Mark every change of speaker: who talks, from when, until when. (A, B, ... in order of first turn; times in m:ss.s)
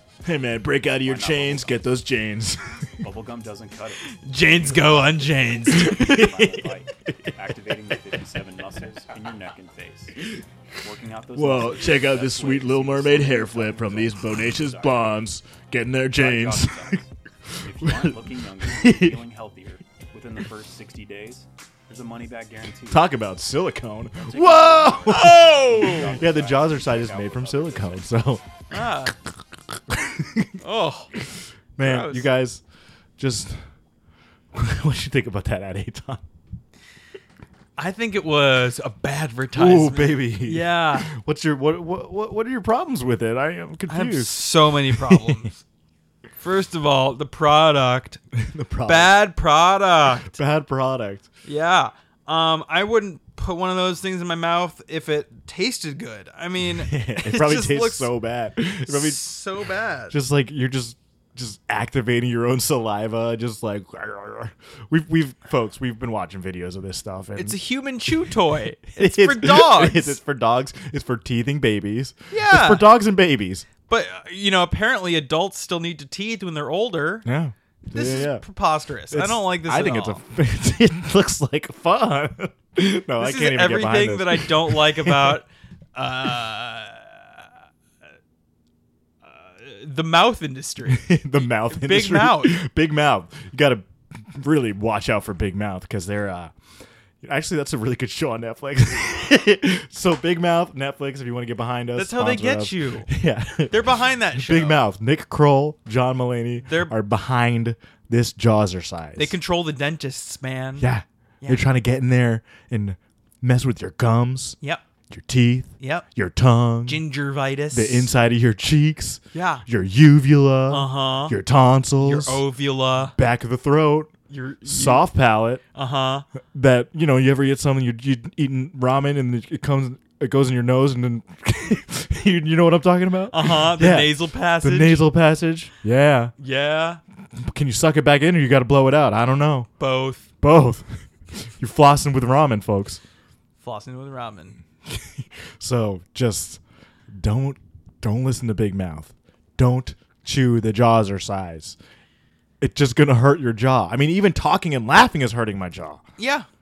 0:00.2-0:03.0 A
0:01.0-0:01.8 B
0:03.0-0:15.2 B
0:04.2-0:06.3 C
0:05.8-0:07.4 A
0:11.4-0:17.0 A
0:16.1-0:23.1 B
0:17.5-0:19.2 A
0:22.9-0:28.4 A
0:24.2-0:28.4 B
0:25.1-0:26.1 C
0:28.7-0:29.2 C
0:29.1-0:30.6 A
0:30.6-0:31.1 C
0:31.8-0:32.6 A
0:31.8-0:32.3 C
0:33.2-0:33.6 A
0:34.5-0:36.2 A
0:37.8-0:41.1 C
0:39.5-0:45.5 A
0:43.9-0:45.6 C
0:46.4-0:48.2 C
0:48.3-0:49.2 A
0:48.8-0:50.4 C
0:50.2-0:51.3 A
0:51.4-0:58.1 C
0:56.8-0:59.3 A
0:58.8-1:00.2 C
1:00.1-1:07.6 A
1:07.4-1:10.2 C
1:08.9-1:13.7 A
1:12.3-1:12.9 C
1:13.9-1:17.3 C
1:17.2-1:18.5 A
1:17.9-1:20.2 C
1:19.1-1:25.4 A
1:23.2-1:27.5 C
1:29.2-1:32.6 C
1:30.9-1:36.5 A
1:37.2-1:49.4 A
1:42.0-1:43.1 C
1:43.7-1:44.9 C
1:46.6-1:46.9 C
1:49.2-1:50.9 C
1:50.8-1:54.6 A
1:51.4-1:51.7 C
1:55.1-1:57.0 A
1:55.8-1:56.1 C
1:56.9-1:58.1 C
1:57.7-2:02.4 A
1:59.3-1:59.6 C
2:00.7-2:01.4 C
2:02.0-2:03.2 C
2:03.0-2:04.1 A
2:04.3-2:05.1 C
2:04.6-2:05.6 A
2:05.7-2:06.3 C
2:06.5-2:16.3 A
2:13.3-2:15.1 C
2:16.4-2:17.0 C
2:17.3-2:19.7 A
2:19.8-2:20.3 C
2:20.4-2:23.0 A
2:23.6-2:24.6 C
2:24.9-2:31.8 A
2:32.6-2:36.0 A
2:36.2-2:36.5 C